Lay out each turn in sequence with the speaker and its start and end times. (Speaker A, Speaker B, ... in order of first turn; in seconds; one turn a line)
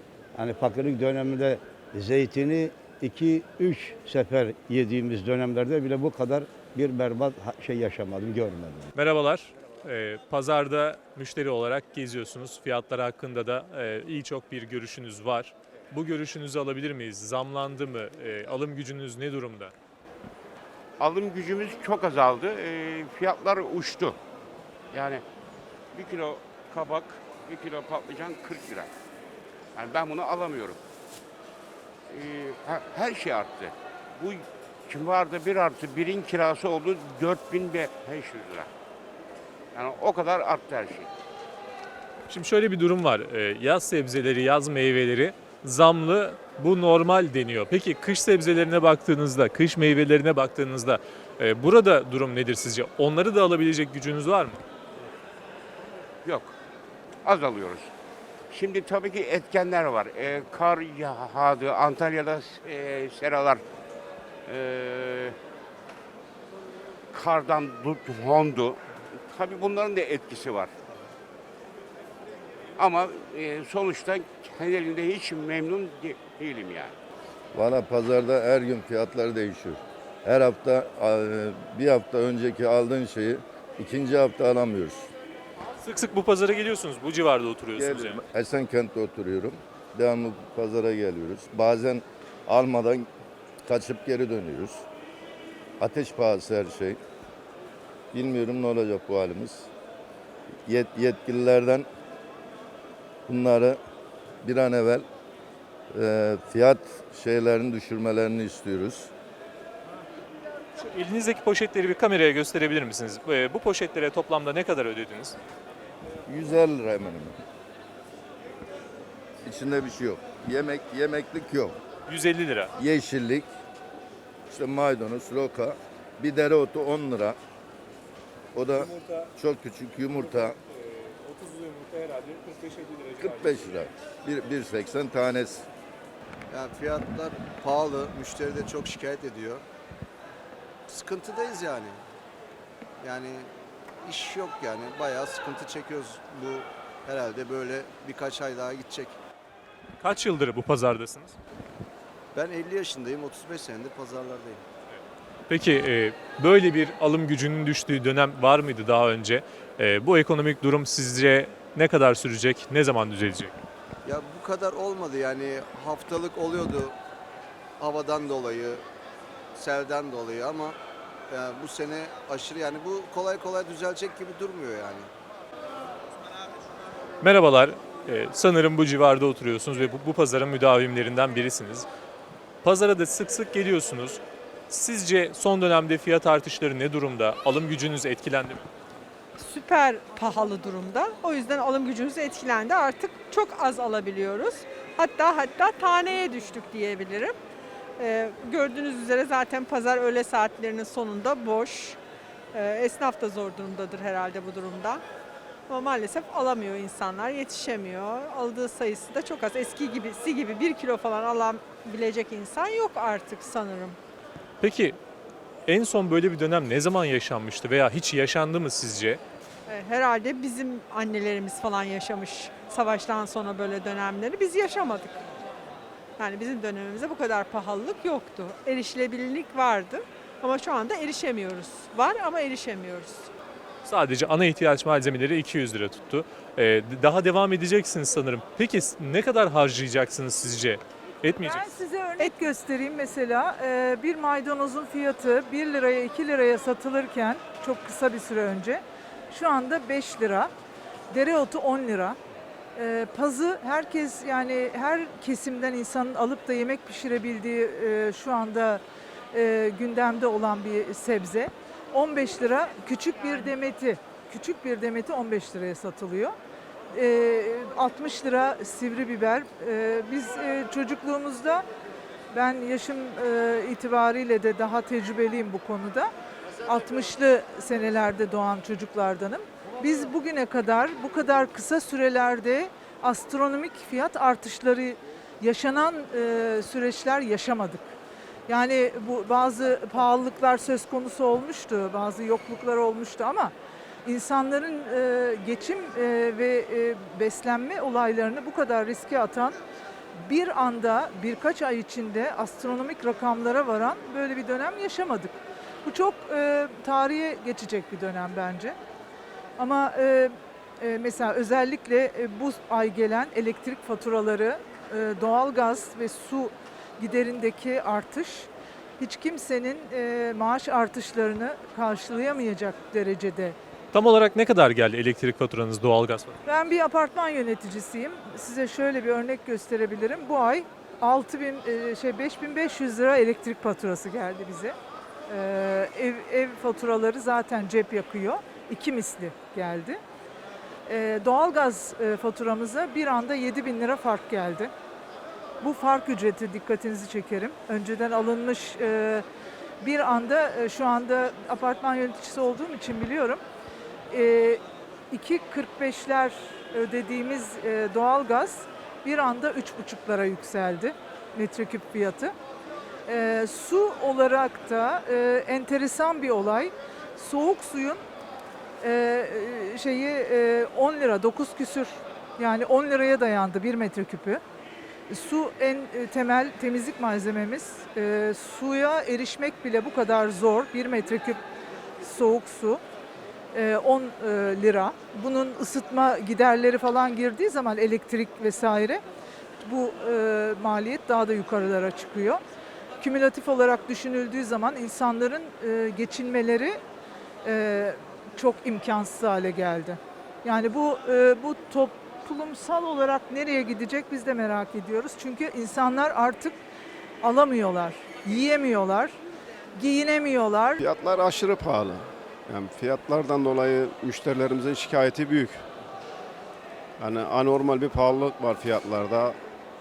Speaker A: 0.3-8.9
Speaker B: 8.9-19.7
Speaker C: 21.0-24.1
Speaker C: 24.9-25.2
Speaker C: 25.9-28.9
Speaker C: 29.8-30.8
Speaker C: 32.1-38.7
Speaker C: 39.7-41.1
Speaker B: 42.3-54.6
Speaker C: 56.2-56.5
Speaker C: 57.2-57.9
Speaker C: 58.5-63.6
Speaker C: 64.5-65.3
Speaker C: 67.1-70.7
Speaker C: 72.8-76.9
Speaker D: 77.5-85.0
Speaker B: 85.7-88.2
Speaker D: 87.8-93.1
Speaker D: 93.7-94.8
Speaker D: 95.8-97.0
Speaker D: 98.1-99.7
Speaker D: 100.7-101.8
Speaker D: 103.3-103.8
Speaker D: 104.4-105.0
Speaker D: 105.9-109.1
Speaker B: 110.8-115.4
Speaker D: 116.2-117.3
Speaker D: 119.4-121.8
Speaker B: 122.1-122.7
Speaker D: 122.8-123.5
Speaker D: 124.5-127.4
Speaker D: 128.5-130.6
Speaker B: 130.8-133.2
Speaker D: 133.2-135.7
Speaker E: 136.5-139.6
Speaker E: 140.9-142.0
Speaker E: 143.0-143.5
Speaker E: 144.0-149.1
Speaker B: 150.0-151.4
Speaker E: 152.3-154.6
Speaker B: 155.5-163.5
Speaker E: 164.0-166.9
Speaker E: 167.8-168.8
Speaker E: 169.6-170.8
Speaker E: 171.3-175.1
Speaker B: 177.2-181.9
Speaker B: 182.6-188.7
Speaker F: 189.4-197.4
Speaker F: 198.0-202.0
Speaker F: 202.5-205.0
Speaker F: 205.7-214.0
Speaker B: 214.6-215.0
Speaker B: 215.7-219.2
Speaker F: 219.7-225.3
Speaker F: 226.2-233.3
Speaker B: 233.8-241.7
Speaker G: 241.4-250.5
Speaker G: 251.1-252.2
Speaker G: 252.7-258.8
Speaker G: 259.3-266.4
Speaker G: 266.9-271.6
Speaker G: 272.3-276.1
Speaker G: 276.6-287.9
Speaker G: 288.5-293.5
Speaker G: 294.0-299.6
Speaker G: 300.1-308.8
Speaker G: 309.6-323.6
Speaker B: 323.9-326.4
Speaker G: 326.4-334.8
Speaker G: 335.3-340.0
Speaker G: 340.9-344.7
Speaker G: 345.6-349.2
Speaker G: 349.8-353.4
Speaker G: 354.1-362.3
Speaker G: 363.1-368.0
Speaker G: 368.8-374.4
Speaker G: 375.1-381.4
Speaker G: 382.0-382.8
Speaker G: 383.5-389.0
Speaker G: 389.6-392.4
Speaker G: 393.0-396.8
Speaker G: 397.4-406.6
Speaker G: 407.2-409.2
Speaker G: 409.7-410.8
Speaker H: 410.8-415.6
Speaker H: 417.0-419.4